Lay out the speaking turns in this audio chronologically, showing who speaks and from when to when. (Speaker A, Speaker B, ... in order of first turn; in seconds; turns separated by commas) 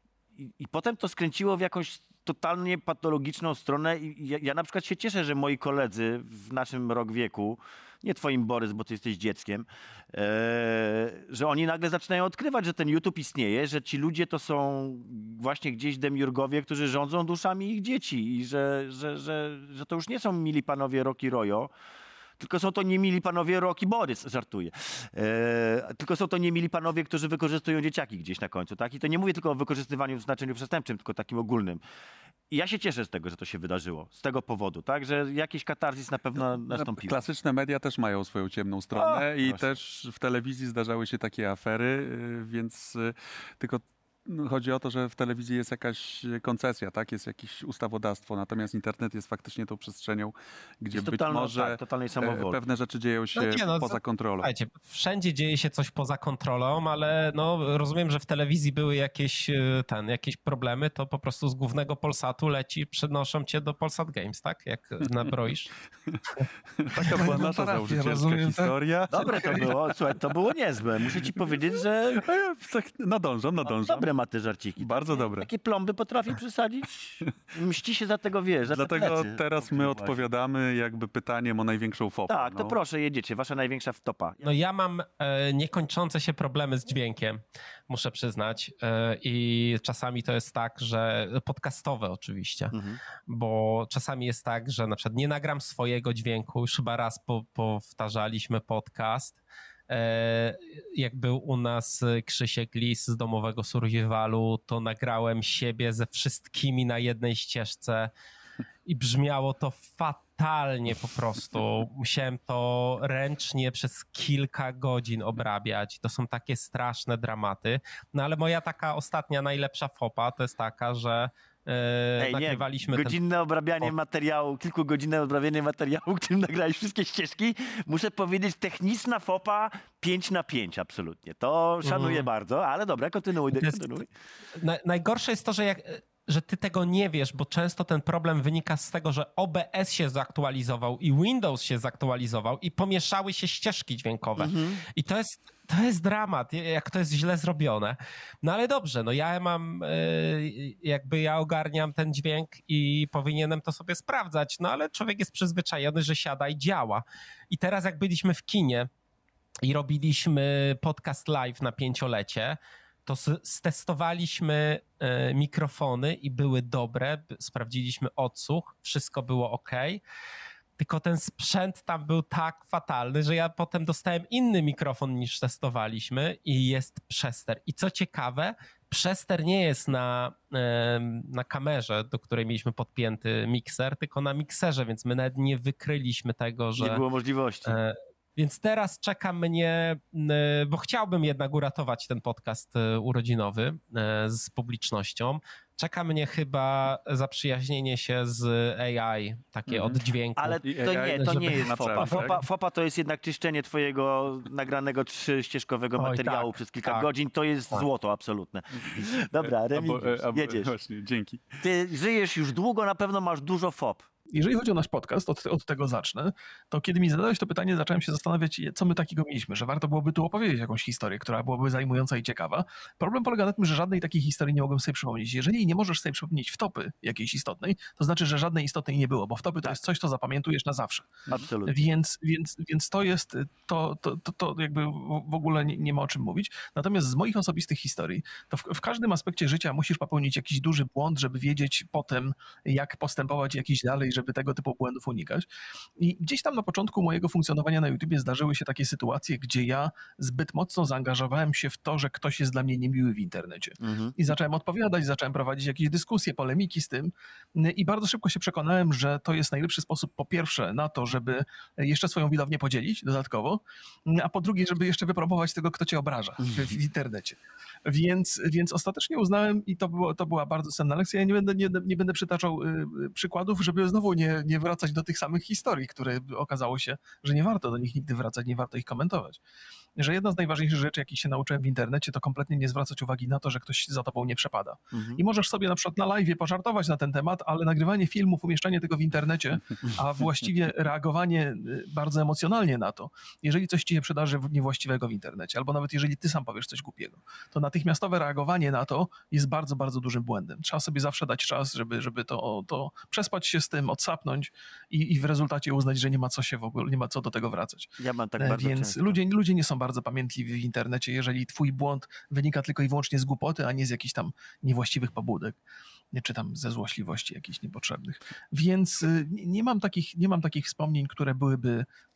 Speaker A: 0.4-21.7, Speaker A: 22.4-31.8, Speaker A: 32.5-37.3, Speaker B: 36.7-54.5, Speaker A: 39.0-39.7, Speaker A: 50.9-52.6, Speaker C: 53.4-65.8, Speaker B: 66.8-69.9, Speaker D: 66.9-69.7, Speaker A: 69.1-72.2, Speaker B: 72.2-74.1, Speaker A: 73.6-80.2, Speaker B: 74.8-75.5, Speaker B: 78.7-82.8, Speaker A: 82.3-84.5, Speaker C: 84.4-108.1, Speaker A: 92.7-93.0, Speaker C: 108.9-123.2, Speaker A: 122.2-134.1, Speaker C: 131.8-132.3, Speaker C: 133.5-133.8, Speaker C: 134.6-158.9, Speaker A: 144.4-144.8, Speaker C: 159.6-170.0, Speaker C: 170.8-187.0, Speaker A: 186.8-187.8, Speaker C: 187.7-202.4, Speaker B: 199.7-200.0, Speaker A: 200.4-210.7, Speaker B: 200.6-202.4, Speaker C: 205.9-207.1, Speaker B: 208.8-211.6, Speaker A: 211.6-214.1, Speaker D: 214.3-279.4, Speaker A: 231.3-231.8, Speaker A: 253.8-254.2, Speaker A: 266.4-266.7, Speaker D: 280.0-315.6, Speaker A: 284.9-285.2, Speaker A: 308.0-309.2, Speaker D: 316.1-321.9